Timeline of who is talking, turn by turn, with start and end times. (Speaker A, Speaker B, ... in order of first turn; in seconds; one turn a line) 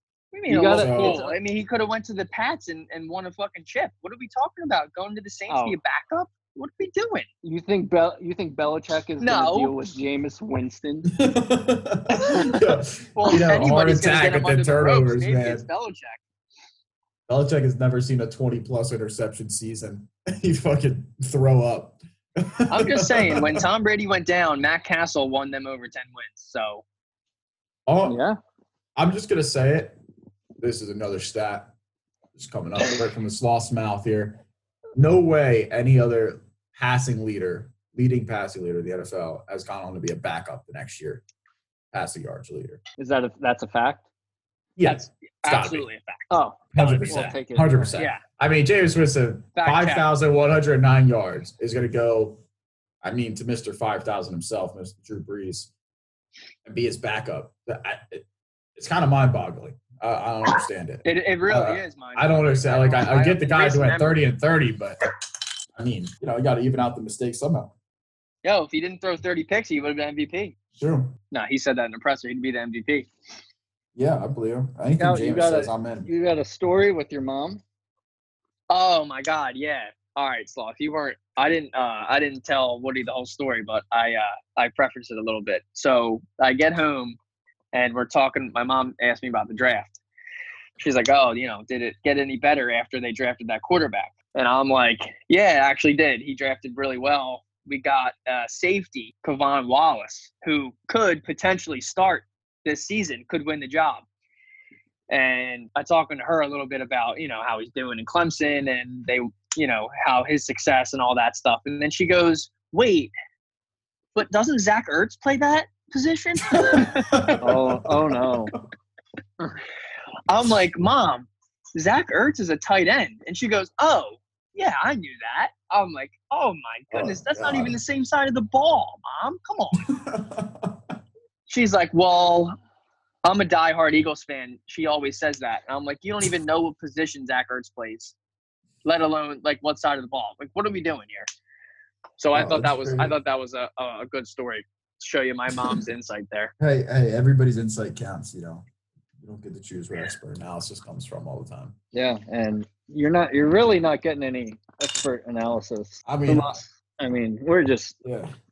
Speaker A: 0.3-7.3
Speaker B: 0.5-1.4
Speaker C: 0.7-1.2
Speaker B: 5.5-5.8
Speaker B: 7.4-11.1
Speaker A: 9.2-9.7
Speaker C: 11.1-15.6
Speaker A: 13.2-16.2
Speaker C: 17.3-23.6
Speaker A: 22.7-26.8
Speaker C: 27.9-28.2
Speaker B: 28.0-28.4
Speaker C: 28.9-30.0
Speaker C: 30.6-31.7
Speaker C: 32.3-34.4
Speaker C: 35.0-41.2
Speaker C: 41.9-42.8
Speaker B: 43.0-44.0
Speaker C: 44.8-45.9
Speaker A: 44.9-47.3
Speaker B: 46.3-47.9
Speaker C: 46.7-52.4
Speaker A: 48.0-48.2
Speaker A: 49.5-50.1
Speaker C: 53.0-55.7
Speaker C: 56.6-65.0
Speaker A: 61.0-64.2
Speaker C: 65.8-67.7
Speaker A: 68.4-70.5
Speaker C: 70.7-71.1
Speaker A: 71.3-73.1
Speaker C: 73.9-76.1
Speaker B: 75.0-77.6
Speaker A: 78.7-87.2
Speaker A: 87.7-90.0
Speaker A: 90.8-104.0
Speaker A: 105.1-113.1
Speaker A: 114.1-117.1
Speaker C: 116.5-118.6
Speaker B: 117.4-118.5
Speaker A: 120.3-129.9
Speaker C: 126.9-127.8
Speaker C: 129.9-130.8
Speaker A: 131.5-132.5
Speaker A: 133.2-138.1
Speaker A: 138.8-141.3
Speaker A: 142.2-146.5
Speaker C: 142.3-143.2
Speaker C: 146.6-148.6
Speaker C: 149.2-151.8
Speaker B: 151.9-158.0
Speaker C: 156.0-156.6
Speaker C: 158.0-158.3